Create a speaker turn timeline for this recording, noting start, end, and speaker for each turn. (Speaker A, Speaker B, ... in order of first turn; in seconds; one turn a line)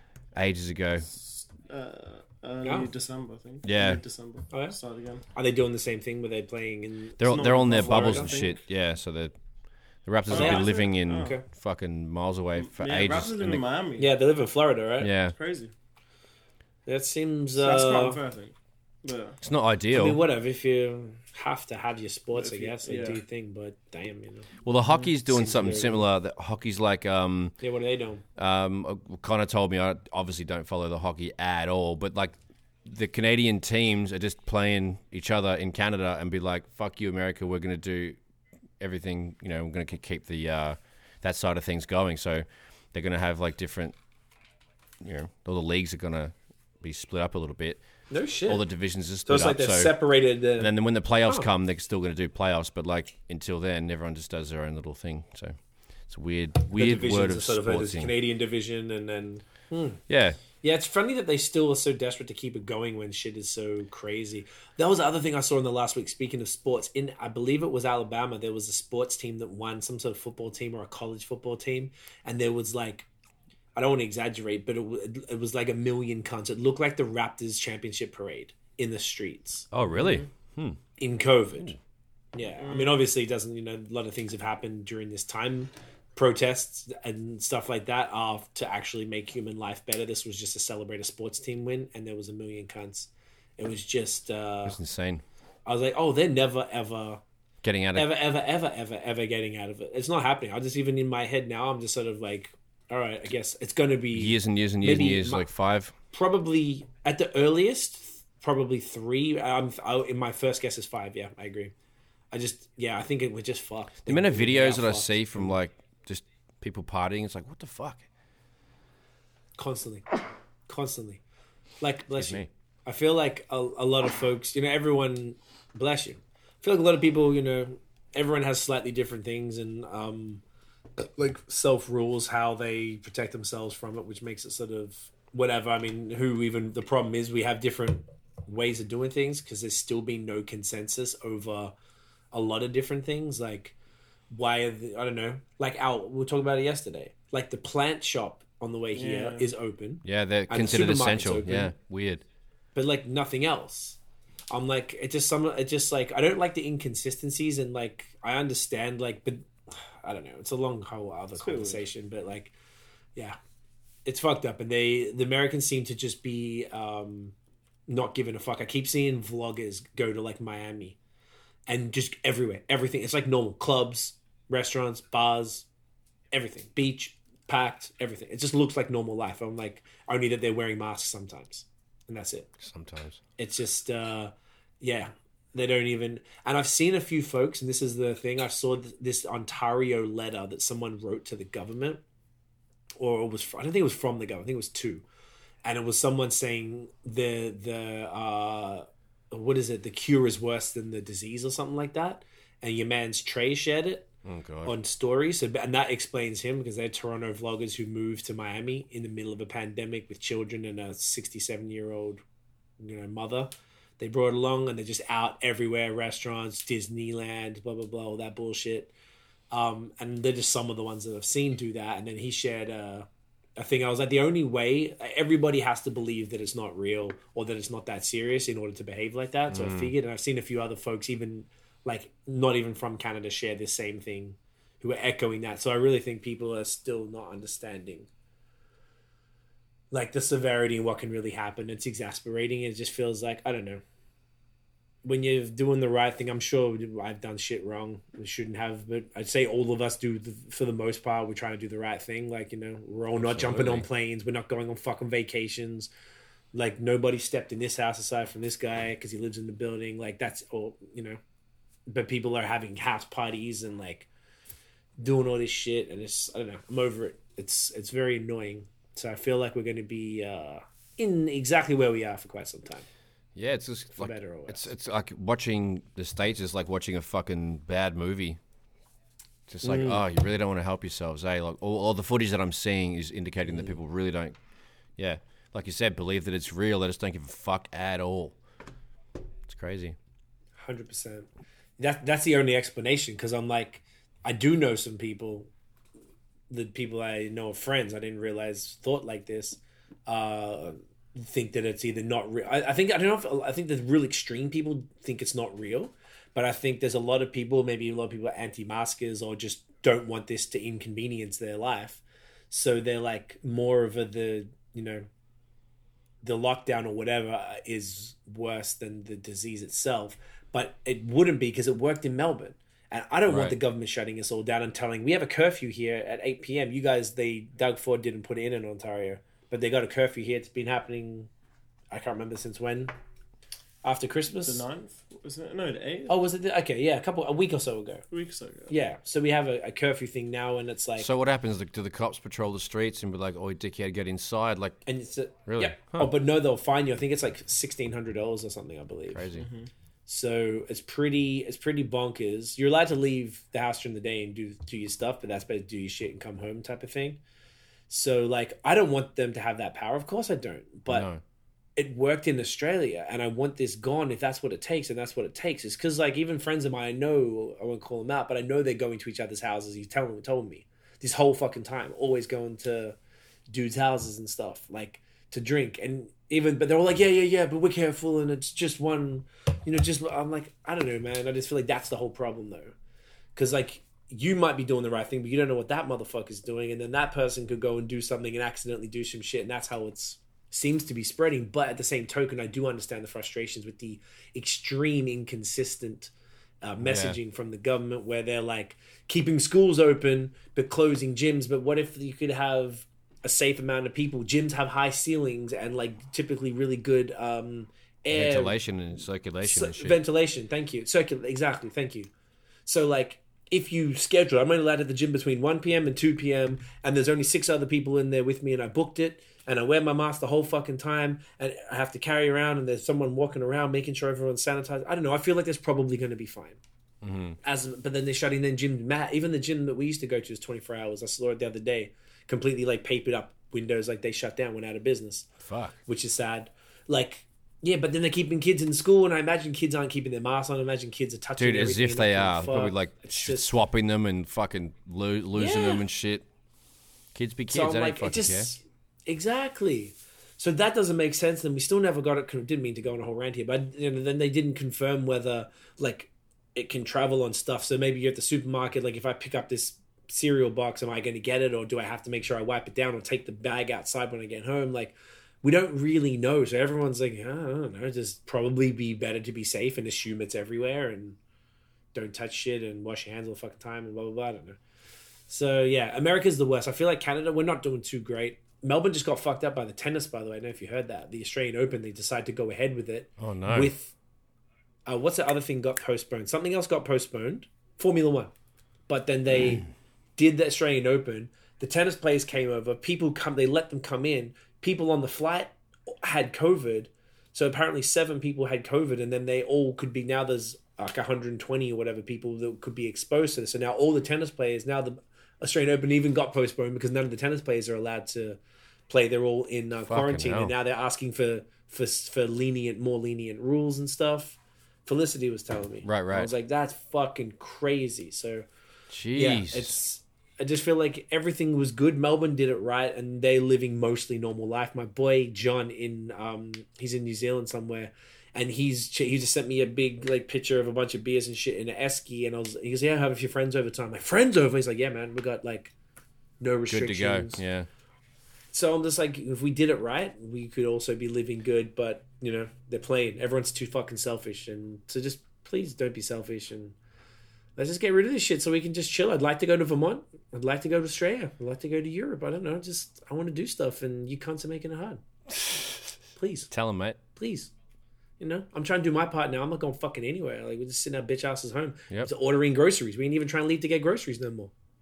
Speaker A: 0.3-1.1
Speaker B: 1.1-5.2
Speaker C: 2.6-2.9
Speaker A: 3.6-4.0
Speaker C: 4.5-4.8
Speaker C: 5.3-8.3
Speaker A: 7.2-9.3
Speaker B: 7.2-8.6
Speaker A: 10.0-13.6
Speaker B: 10.3-11.4
Speaker C: 10.3-11.4
Speaker B: 12.6-14.1
Speaker C: 14.0-15.1
Speaker A: 15.0-15.3
Speaker B: 15.3-15.7
Speaker C: 16.9-18.2
Speaker B: 17.6-19.4
Speaker A: 19.4-20.2
Speaker C: 19.9-26.1
Speaker B: 22.3-23.2
Speaker A: 24.6-27.5
Speaker C: 27.6-28.2
Speaker A: 28.4-38.2
Speaker A: 38.8-44.0
Speaker A: 45.0-47.8
Speaker C: 48.1-48.6
Speaker A: 48.5-49.9
Speaker C: 49.2-50.7
Speaker A: 50.6-55.5
Speaker A: 56.1-58.1
Speaker C: 56.7-60.0
Speaker A: 60.1-60.4
Speaker C: 60.6-73.1
Speaker C: 73.7-79.7
Speaker A: 79.7-80.8
Speaker B: 80.0-80.2
Speaker C: 81.0-81.8
Speaker C: 82.3-94.8
Speaker B: 82.6-83.0
Speaker A: 94.6-95.2
Speaker C: 95.7-97.2
Speaker A: 97.6-98.2
Speaker C: 97.9-105.5
Speaker A: 104.1-105.9
Speaker C: 106.1-111.7
Speaker C: 112.3-115.5
Speaker A: 114.0-118.0
Speaker C: 119.6-120.0
Speaker C: 120.7-121.2
Speaker C: 121.8-130.4
Speaker A: 122.2-122.5
Speaker C: 131.0-141.7
Speaker C: 142.3-143.8
Speaker C: 144.3-151.7
Speaker B: 148.9-149.5
Speaker A: 150.0-152.2
Speaker C: 152.7-154.0
Speaker C: 154.5-162.5
Speaker B: 161.4-161.9
Speaker C: 164.1-167.3
Speaker C: 167.9-171.0
Speaker C: 171.7-175.7
Speaker C: 176.3-182.5
Speaker A: 182.6-183.2
Speaker C: 183.4-192.0
Speaker C: 193.0-195.0
Speaker C: 195.6-204.1
Speaker A: 204.2-204.8
Speaker C: 204.6-212.2
Speaker C: 212.8-218.9
Speaker C: 219.5-238.1
Speaker A: 229.5-229.9
Speaker C: 239.9-243.8
Speaker C: 245.0-255.9
Speaker A: 253.2-253.8
Speaker C: 256.5-261.2
Speaker C: 261.9-264.1
Speaker C: 265.0-272.9
Speaker A: 273.3-278.4
Speaker C: 274.0-274.7
Speaker A: 279.5-284.4
Speaker C: 279.6-280.0
Speaker A: 285.0-288.4
Speaker A: 289.4-289.9
Speaker C: 290.6-291.3
Speaker C: 291.8-295.5
Speaker C: 296.5-315.1
Speaker C: 316.2-331.3
Speaker A: 323.3-323.6
Speaker C: 331.9-332.9
Speaker C: 333.8-334.6
Speaker B: 334.4-336.1
Speaker C: 336.1-338.0
Speaker B: 338.1-338.7
Speaker C: 338.7-341.1
Speaker A: 341.0-344.8
Speaker C: 344.9-349.3
Speaker A: 345.5-346.1
Speaker A: 349.1-349.5
Speaker B: 349.3-349.7
Speaker C: 350.1-357.2
Speaker C: 357.9-361.1
Speaker A: 360.9-361.2
Speaker C: 361.8-373.0
Speaker C: 373.5-382.7
Speaker C: 383.4-408.6
Speaker A: 396.8-397.2
Speaker A: 408.1-410.0
Speaker C: 409.4-412.1
Speaker C: 412.6-426.6
Speaker A: 427.0-427.4
Speaker C: 427.4-435.3
Speaker A: 435.4-435.7
Speaker C: 435.9-443.5
Speaker A: 441.4-446.2
Speaker C: 445.3-445.8
Speaker A: 447.1-448.5
Speaker C: 447.5-471.2
Speaker C: 471.9-474.6
Speaker C: 475.3-483.9
Speaker A: 483.2-483.7
Speaker C: 484.9-488.3
Speaker C: 488.9-518.5
Speaker A: 509.9-510.5
Speaker A: 515.8-516.3
Speaker A: 518.9-519.7
Speaker C: 519.1-535.7
Speaker C: 536.4-537.4
Speaker A: 536.7-537.7
Speaker C: 538.5-546.7
Speaker C: 547.5-555.0
Speaker C: 556.1-556.5
Speaker A: 556.5-557.0
Speaker C: 557.1-557.5
Speaker C: 558.2-564.5